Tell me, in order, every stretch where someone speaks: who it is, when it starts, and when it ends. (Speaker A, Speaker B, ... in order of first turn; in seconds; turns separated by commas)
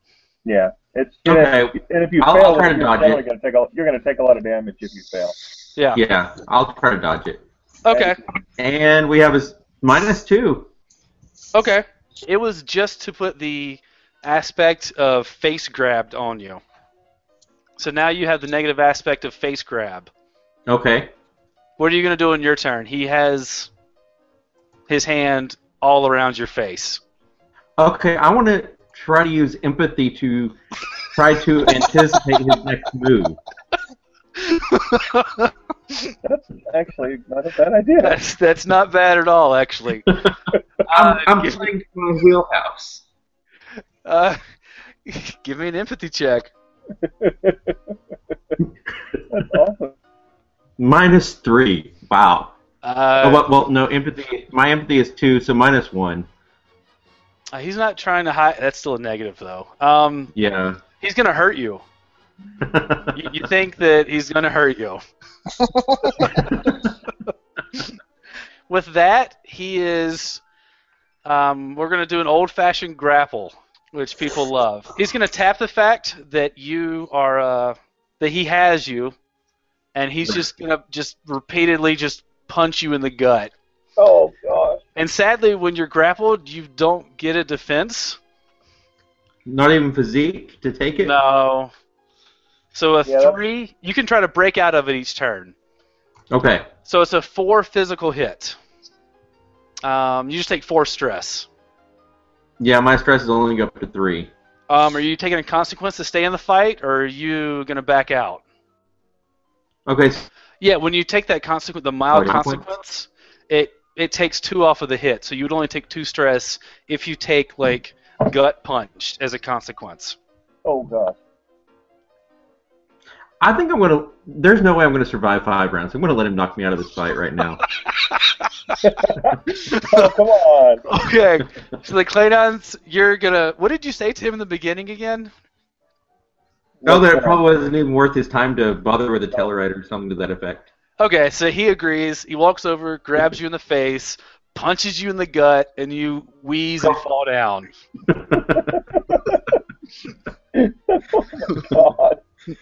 Speaker A: 0.4-5.3, Speaker B: 1.2-3.2, Speaker C: 5.8-6.0, Speaker B: 5.9-7.4, Speaker C: 7.8-8.2, Speaker B: 8.6-10.7, Speaker C: 11.5-16.6, Speaker C: 17.8-20.1, Speaker B: 20.7-21.1, Speaker C: 21.8-23.7, Speaker C: 24.9-27.0, Speaker B: 27.8-30.6, Speaker B: 31.1-33.4, Speaker C: 34.4-36.1, Speaker A: 36.2-38.2, Speaker C: 38.0-40.2, Speaker C: 40.9-41.7, Speaker B: 40.9-43.0, Speaker C: 44.0-44.4, Speaker C: 45.1-46.5, Speaker A: 47.0-47.7, Speaker A: 49.3-49.9, Speaker B: 50.8-52.5, Speaker C: 52.8-53.5, Speaker B: 53.2-56.3, Speaker C: 57.5-60.3, Speaker B: 60.4-60.8, Speaker C: 61.0-61.8, Speaker B: 62.6-63.2, Speaker C: 63.1-65.0, Speaker B: 66.2-66.9, Speaker C: 68.7-70.4, Speaker C: 71.2-79.1, Speaker C: 79.9-83.5, Speaker A: 84.0-84.8, Speaker C: 85.0-88.2, Speaker B: 89.5-91.2, Speaker C: 91.0-91.7, Speaker C: 92.7-95.5, Speaker A: 93.1-93.4, Speaker B: 96.3-96.7, Speaker C: 96.9-98.6, Speaker C: 99.8-101.5, Speaker B: 102.6-104.3, Speaker C: 104.7-108.4, Speaker B: 109.9-110.3, Speaker C: 110.6-120.2, Speaker B: 112.1-112.6, Speaker A: 120.6-121.2, Speaker B: 123.4-127.6, Speaker C: 128.0-128.7, Speaker A: 128.8-130.8, Speaker C: 129.5-130.1, Speaker C: 130.9-135.3, Speaker A: 136.8-137.4, Speaker B: 136.8-140.7, Speaker C: 141.0-147.7, Speaker B: 148.1-148.6, Speaker A: 149.1-149.4, Speaker A: 150.5-152.2